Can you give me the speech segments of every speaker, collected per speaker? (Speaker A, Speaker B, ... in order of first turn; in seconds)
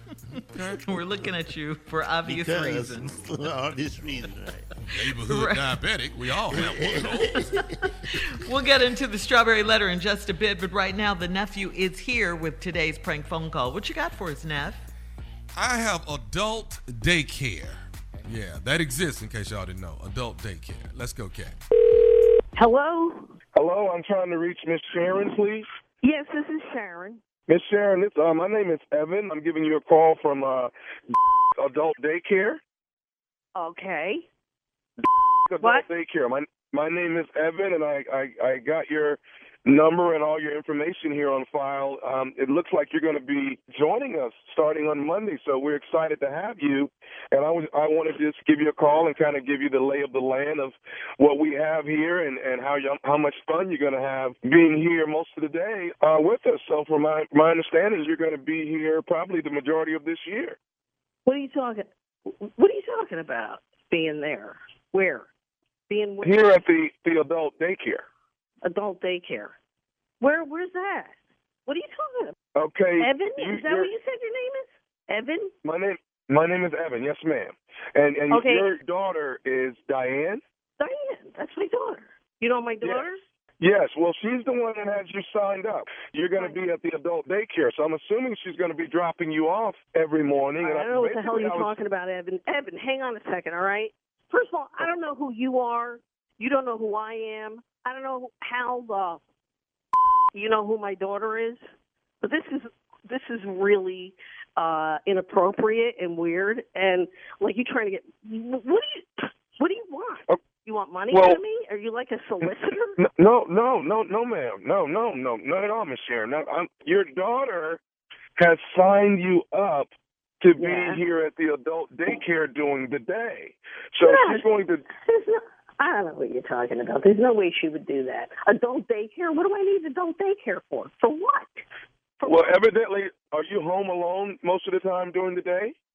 Speaker A: 0.5-0.8, 4.8-7.4, 15.5-21.6
Speaker B: 0.8-3.2, 5.0-5.7, 7.4-14.8
Speaker C: 2.2-4.7, 6.5-7.7
Speaker D: 22.6-23.3, 26.0-27.2, 33.5-34.3, 35.6-35.9, 61.2-65.3, 65.9-66.5, 68.6-69.5, 70.2-71.2, 71.7-72.4, 73.0-75.5, 78.3-78.7, 80.8-83.2, 90.6-99.2, 100.3-101.6, 102.2-113.0, 120.6-121.0, 124.0-131.7, 132.2-132.5
Speaker E: 23.6-25.7, 27.5-30.7, 31.6-32.6, 35.0-60.6, 66.2-68.0, 72.6-73.9, 75.6-80.4, 83.6-91.8, 111.1-111.4, 113.0-117.8, 118.4-119.9, 120.4-124.9, 132.3-135.7